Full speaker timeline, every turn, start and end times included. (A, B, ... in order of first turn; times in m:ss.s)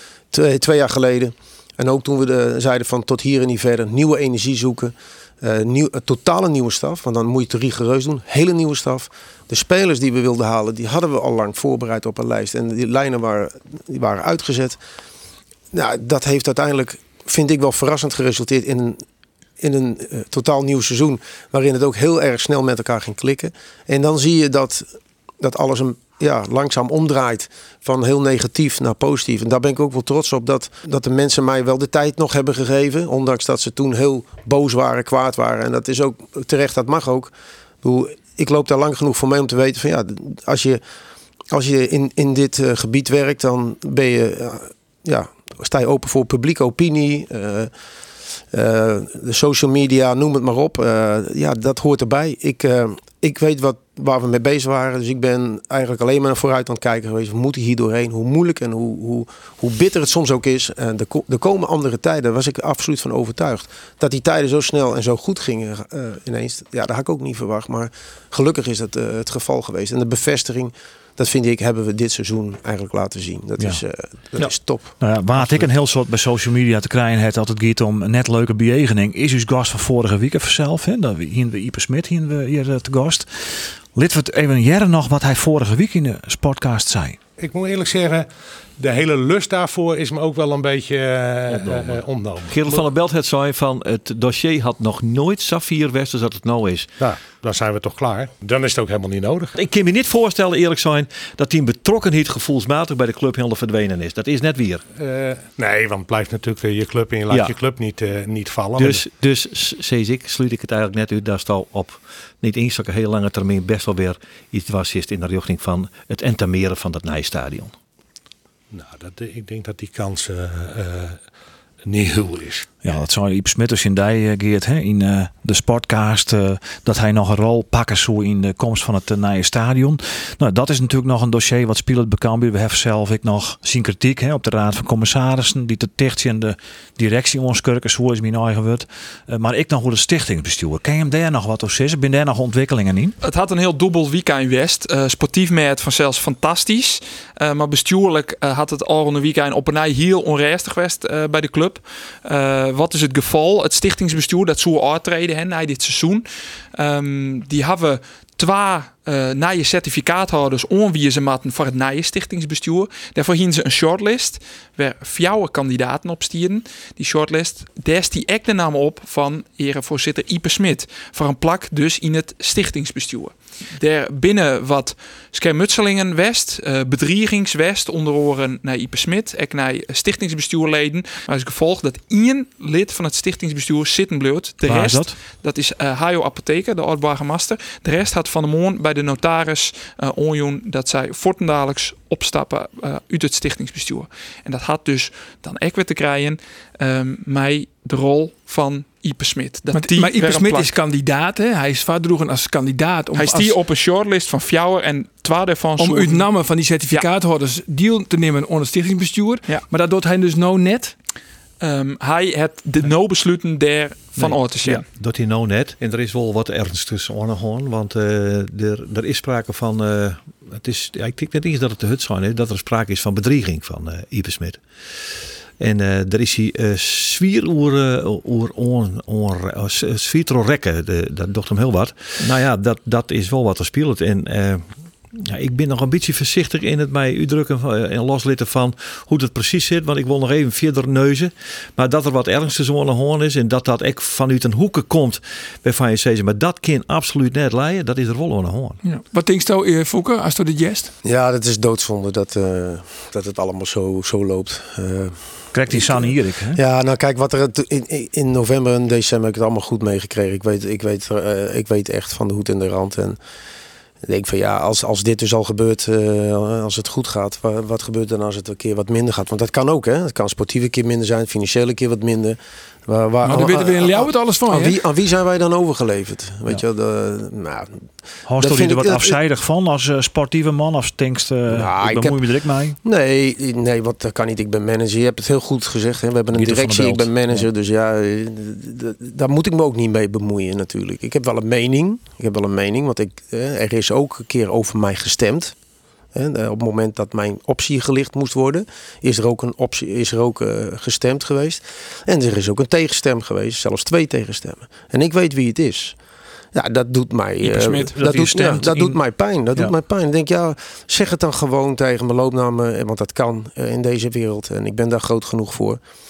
0:00.3-0:14.8 A
0:15.7-0:19.0 A
0:19.6-0:24.8 A
0:25.4-0:37.3 A
0:37.8-0:40.8 A
0:41.5-0:47.7 A
0:48.5-1:15.6 A
1:15.0-1:27.2 B
1:27.4-1:32.9 C
1:31.5-1:36.9 D
1:37.0-1:39.5 C
1:39.5-1:44.8 D
1:44.9-1:49.1 C
1:47.3-1:47.5 D
1:48.8-1:57.7 D
1:58.7-2:01.2 C
2:01.8-2:02.7 C
2:02.8-2:23.2 B
2:23.2-3:20.8 E
3:04.6-3:05.2 B
3:19.7-3:23.5 F
3:23.1-3:27.1 E
3:25.8-3:30.9 F
3:31.6-3:34.8 E
3:34.2-4:08.8 D
4:08.8-4:10.9 F
4:11.0-4:23.2 A
4:15.5-4:16.6 B
4:24.0-4:37.8 A
4:33.2-4:34.8 F
4:38.3-4:42.8 B
4:38.4-4:39.2 A
4:41.5-4:42.2 A
4:42.8-4:55.5 A
4:46.3-4:47.5 B
4:56.1-5:06.0 A
5:06.5-5:15.8 A
5:07.4-5:08.6 E
5:08.0-5:09.0 B